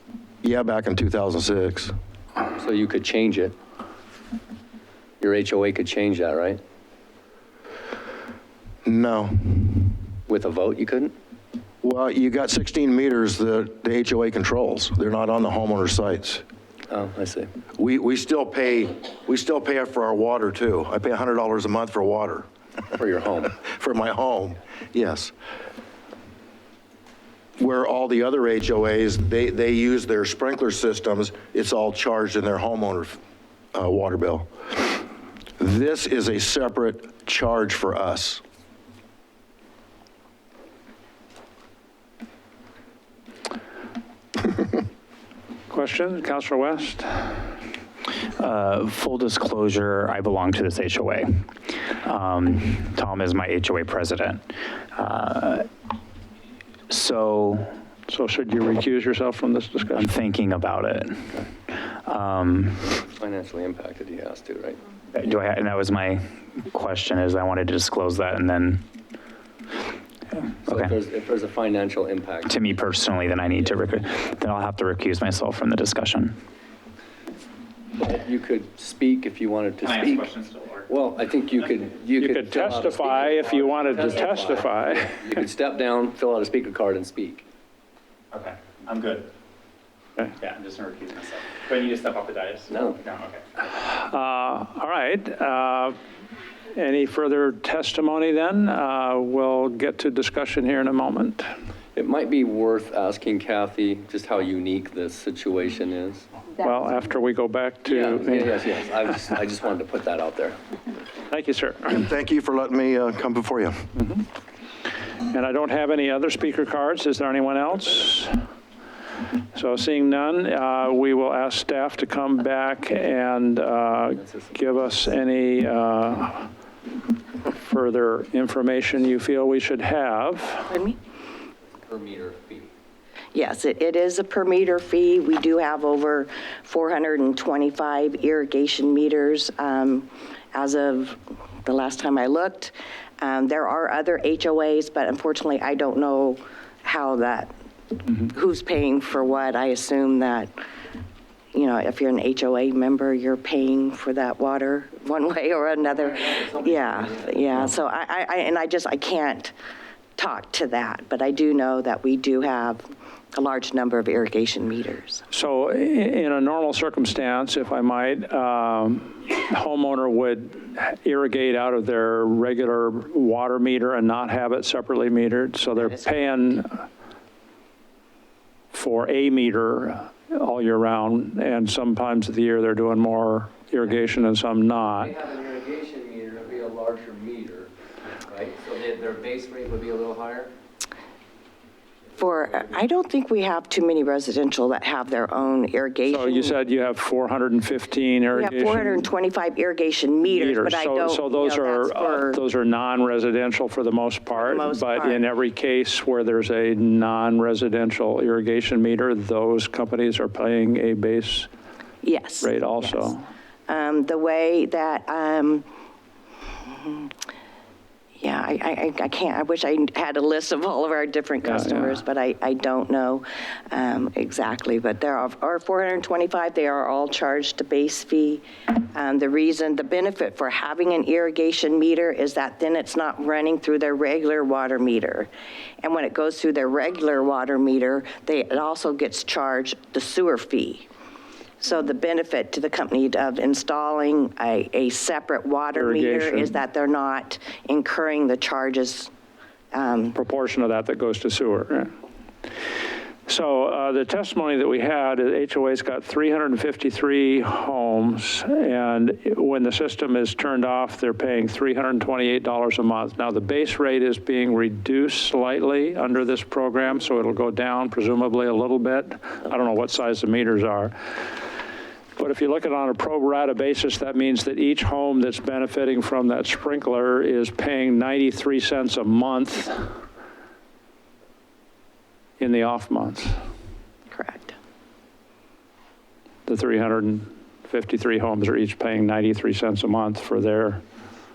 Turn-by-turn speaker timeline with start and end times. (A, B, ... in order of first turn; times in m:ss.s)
0:00.4-0:01.9 A
0:02.6-0:03.6 B
0:05.2-0:06.6 B
0:08.8-0:10.0 A
0:10.3-0:11.1 B
0:11.8-0:16.4 A
0:16.9-0:17.5 B
0:17.8-0:22.5 A
0:23.0-0:23.6 B
0:23.6-0:25.3 A
0:27.6-0:33.2 A
0:33.7-0:35.0 A
0:35.6-0:38.4 A
0:45.7-0:47.5 C
0:48.4-0:51.4 D
0:52.0-0:55.7 D
0:56.9-0:57.7 D
0:58.1-1:00.1 C
0:59.9-1:01.4 D
1:02.0-1:02.9 D
1:03.0-1:04.8 B
1:05.1-1:08.8 D
1:10.4-1:11.0 D
1:10.6-1:12.8 B
1:12.5-1:16.4 D
1:13.5-1:14.4 B
1:18.0-1:20.3 B
1:19.8-1:20.9 D
1:20.9-1:27.4 B
1:22.2-1:25.3 C
1:28.3-1:29.2 D
1:30.4-1:33.4 D
1:32.7-1:33.0 B
1:33.7-1:36.0 C
1:36.7-1:41.5 C
1:42.0-1:46.3 B
1:46.6-1:48.6 C
1:47.8-1:50.6 B
1:51.3-1:52.1 C
1:51.9-1:53.9 A
1:55.3-1:58.4 C
1:59.5-2:06.5 C
2:04.2-2:04.6 B
2:07.6-2:10.8 C
2:10.7-2:11.0 E
2:11.8-2:12.7 B
2:13.3-2:30.5 E
2:31.5-2:39.5 E
2:36.0-2:37.6 B
2:40.2-2:45.2 E
2:45.3-2:56.8 C
2:55.8-2:56.2 E
2:58.7-3:05.1 C
3:04.8-3:07.7 B
3:08.3-3:10.5 B
3:12.2-3:16.6 E
3:16.1-3:19.1 C
3:18.3-3:22.4 E
3:20.3-3:31.5 C
3:24.3-3:25.2 E
3:32.0-3:33.1 E
3:32.4-3:33.2 C
3:33.7-3:35.7 E
3:36.6-3:37.1 E
3:38.2-3:55.3 E
3:41.4-3:42.0 C
3:55.8-4:00.9 E
4:01.6-4:09.1 E
4:05.8-4:06.6 C
4:09.7-4:10.2 E
4:10.1-4:11.9 C
4:13.3-4:31.3 C
4:32.2-4:39.9 C
4:42.4-4:43.3 C
4:44.1-4:44.6 E
4:46.5-4:50.8 C